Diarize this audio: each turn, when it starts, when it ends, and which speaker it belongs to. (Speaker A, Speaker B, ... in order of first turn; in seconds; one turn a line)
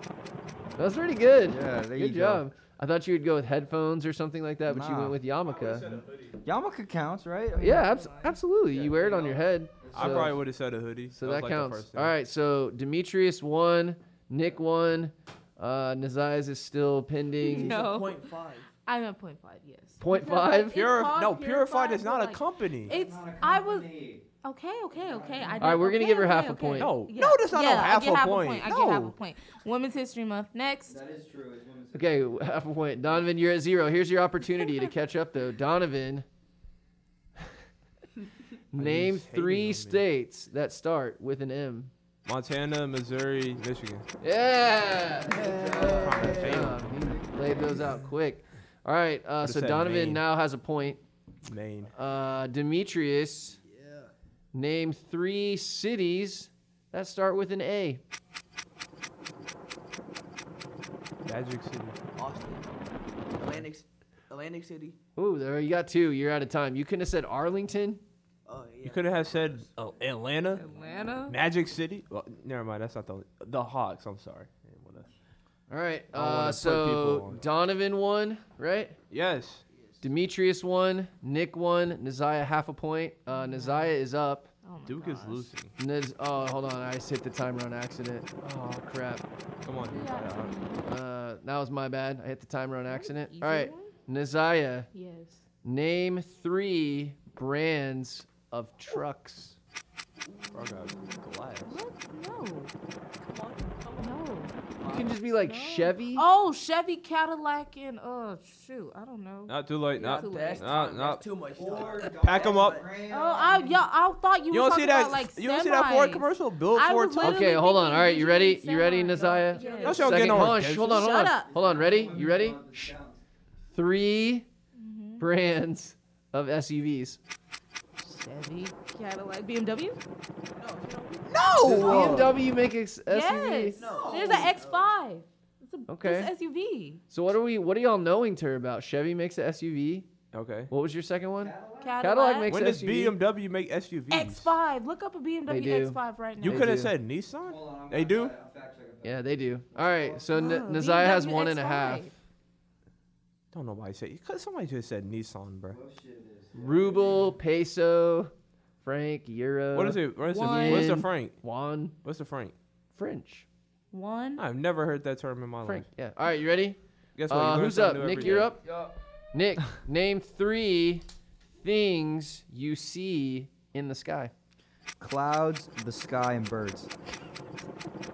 Speaker A: 0.8-6.0
Speaker B: 1.5-2.4
Speaker B: 4.7-5.2
Speaker C: 5.5-6.4
Speaker B: 6.4-7.8
Speaker D: 7.6-8.4
Speaker A: 7.6-10.3
Speaker C: 8.7-9.2
Speaker B: 9.8-10.3
Speaker C: 9.9-12.1
Speaker A: 11.1-17.8
Speaker D: 17.4-23.9
Speaker E: 17.5-18.7
Speaker A: 20.0-20.8
Speaker C: 20.7-23.0
Speaker B: 22.9-24.3
Speaker D: 24.4-31.0
Speaker B: 24.9-25.6
Speaker A: 25.6-27.0
Speaker C: 26.8-29.2
Speaker B: 30.9-32.3
Speaker A: 31.9-36.2
Speaker D: 34.5-34.9
Speaker A: 38.7-41.9
Speaker C: 38.8-40.1
Speaker C: 42.2-44.1
Speaker A: 44.2-51.0
Speaker B: 45.3-48.0
Speaker C: 45.9-46.8
Speaker C: 49.4-50.2
Speaker C: 51.5-51.9
Speaker A: 51.9-53.6
Speaker E: 53.8-54.1
Speaker A: 54.5-58.0
Speaker C: 61.2-62.0
Speaker E: 62.3-62.7
Speaker C: 63.4-63.7
Speaker E: 64.3-65.0
Speaker A: 65.2-68.0
Speaker E: 68.5-68.9
Speaker C: 68.8-70.7
Speaker D: 70.5-71.4
Speaker C: 71.3-75.1
Speaker A: 75.7-79.0
Speaker C: 76.1-77.4
Speaker C: 79.1-79.6
Speaker A: 80.0-84.5
Speaker D: 83.3-84.0
Speaker D: 84.6-85.5
Speaker C: 84.9-85.7
Speaker A: 85.8-89.3
Speaker C: 89.6-90.5
Speaker D: 89.8-90.8
Speaker A: 90.9-94.9
Speaker D: 92.9-93.9
Speaker D: 94.9-95.4
Speaker A: 95.6-99.6
Speaker C: 100.5-101.8
Speaker D: 101.1-102.7
Speaker E: 103.2-104.0
Speaker D: 104.0-104.5
Speaker A: 104.8-106.2
Speaker D: 105.4-110.8
Speaker C: 109.5-111.3
Speaker B: 111.5-113.6
Speaker C: 112.2-112.8
Speaker D: 113.1-120.1
Speaker C: 114.5-117.6
Speaker A: 117.2-123.0
Speaker C: 119.8-121.1
Speaker D: 120.9-121.6
Speaker B: 121.5-123.2
Speaker A: 123.7-124.5
Speaker D: 124.8-125.3
Speaker A: 125.2-127.2
Speaker D: 128.0-130.0
Speaker E: 130.6-131.3
Speaker C: 131.3-131.9
Speaker B: 131.4-132.4
Speaker A: 131.6-133.9
Speaker D: 133.1-137.0
Speaker A: 135.9-136.3
Speaker A: 137.1-140.1
Speaker C: 140.3-140.7
Speaker A: 140.7-143.2
Speaker B: 141.4-142.0
Speaker D: 141.8-142.5
Speaker C: 142.5-144.5
Speaker D: 144.1-146.6
Speaker A: 145.5-146.9
Speaker C: 146.4-148.3
Speaker B: 147.4-150.4
Speaker A: 149.0-152.2
Speaker D: 150.3-152.1
Speaker C: 153.5-155.8
Speaker B: 155.7-157.3
Speaker A: 156.5-162.0
Speaker C: 159.7-161.4
Speaker D: 160.2-161.0
Speaker C: 162.0-162.6
Speaker A: 162.9-163.5
Speaker D: 163.9-164.4
Speaker C: 164.4-165.9
Speaker A: 165.6-168.6
Speaker C: 167.2-168.5
Speaker A: 169.3-171.1
Speaker A: 171.6-174.3
Speaker B: 175.0-176.9